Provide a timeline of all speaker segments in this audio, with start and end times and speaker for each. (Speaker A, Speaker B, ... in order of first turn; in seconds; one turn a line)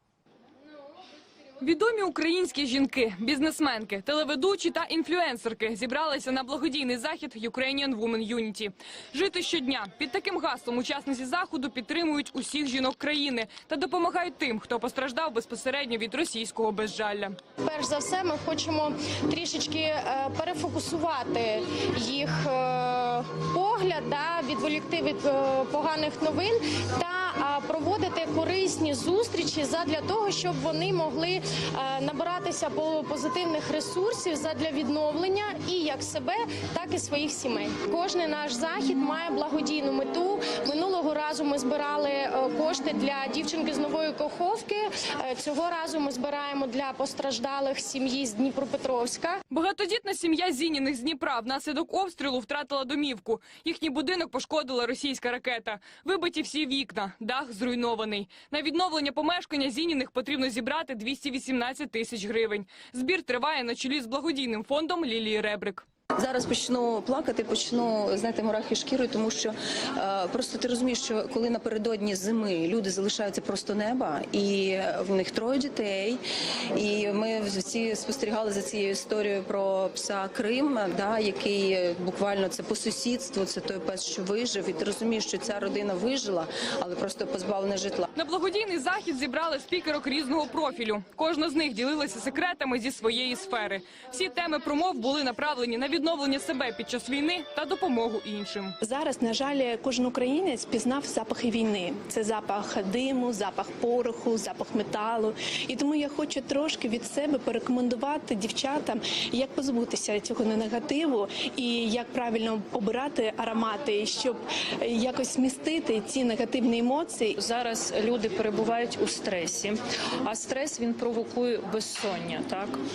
Speaker A: 1.6-17.4
Speaker B: 17.6-49.4
Speaker A: 49.5-65.8
Speaker C: 66.2-76.2
Speaker C: 76.8-88.1
Speaker A: 88.2-98.8
Speaker D: 98.8-117.3
Speaker E: 117.4-122.8